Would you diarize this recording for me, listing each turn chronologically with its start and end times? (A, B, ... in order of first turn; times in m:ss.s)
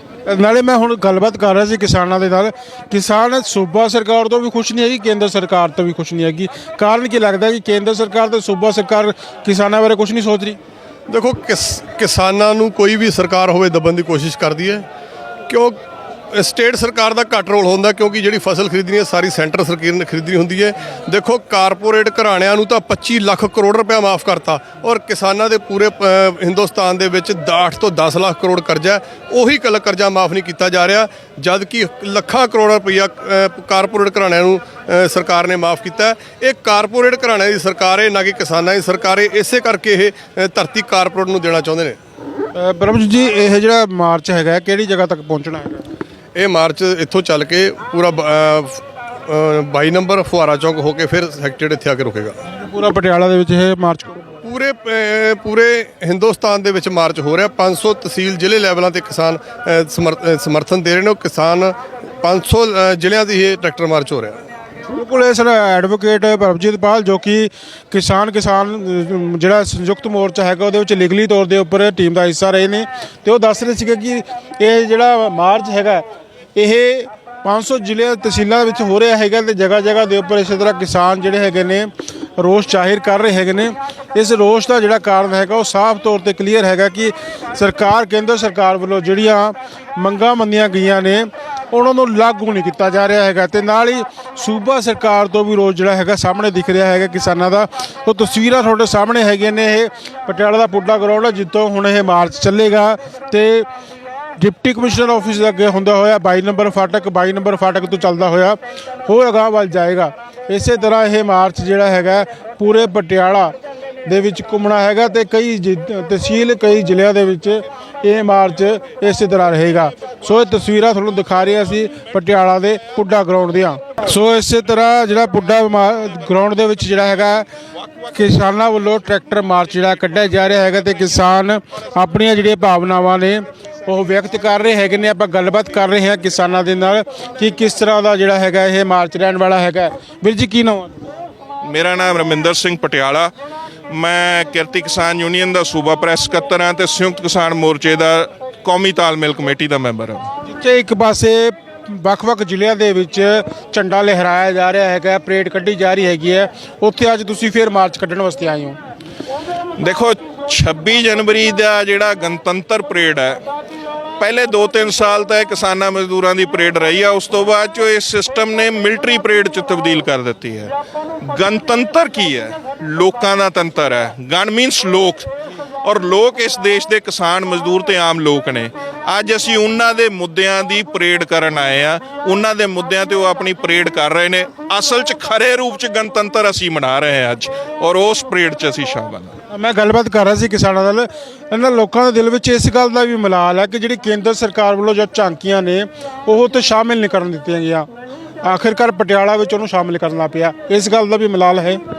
0:00.3-0:10.6 A
0:11.1-0:14.8 B
0:15.5-0:15.8 B
0:16.3-0:42.0 B
0:42.5-0:45.8 A
0:46.4-0:52.4 B
0:52.5-0:54.2 A
0:54.4-1:04.4 B
1:04.9-1:16.0 A
1:16.6-1:43.6 A
1:44.4-1:53.5 A
1:54.0-2:07.4 A
2:08.1-2:21.0 A
2:21.6-2:23.3 C
2:23.9-2:30.3 C
2:30.4-2:38.8 A
2:39.8-2:43.4 C
2:44.2-2:50.7 C
2:51.2-2:55.3 C
2:55.8-3:09.4 C
3:09.5-3:17.9 A
3:18.4-3:21.8 A